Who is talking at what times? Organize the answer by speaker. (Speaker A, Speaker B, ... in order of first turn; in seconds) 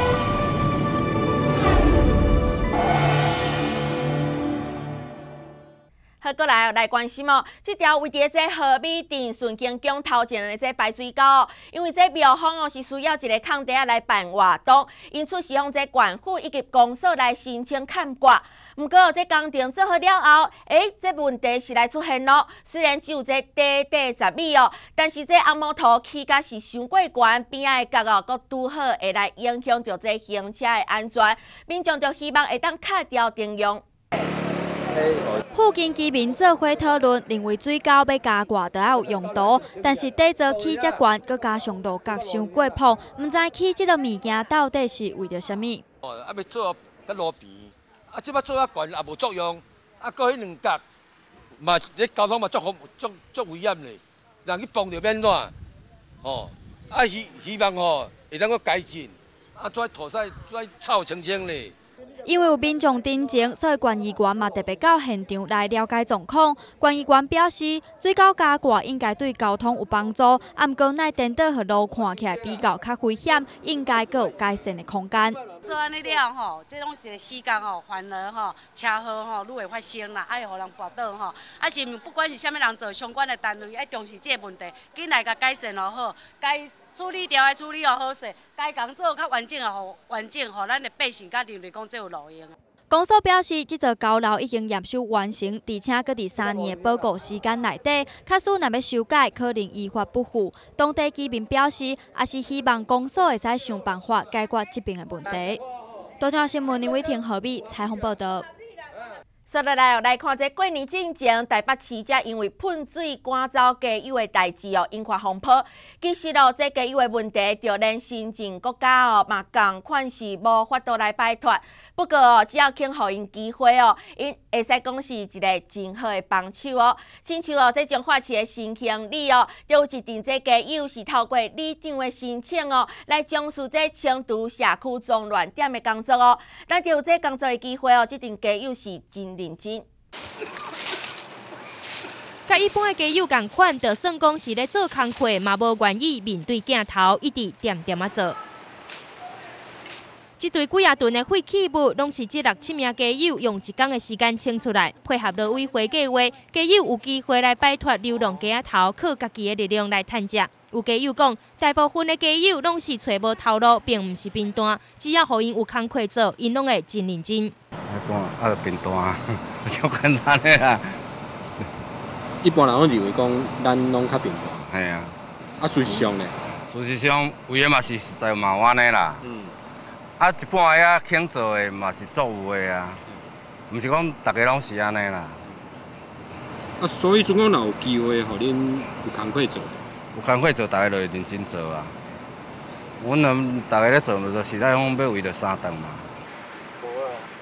Speaker A: 6.2-33.8, 109.5-139.8
Speaker B: 35.5-45.8, 62.2-75.4, 92.9-105.6, 106.2-108.5
Speaker C: 46.0-50.8, 51.6-55.5, 56.2-61.8
Speaker D: 75.6-92.5
Speaker E: 142.5-148.4, 150.4-167.5
Speaker F: 167.9-170.8, 174.6-175.2, 176.7-179.2, 180.2-183.0, 183.7-185.4, 190.1-191.9, 193.0-196.1
Speaker G: 172.4-174.6, 175.6-176.4, 179.2-179.5, 186.8-189.8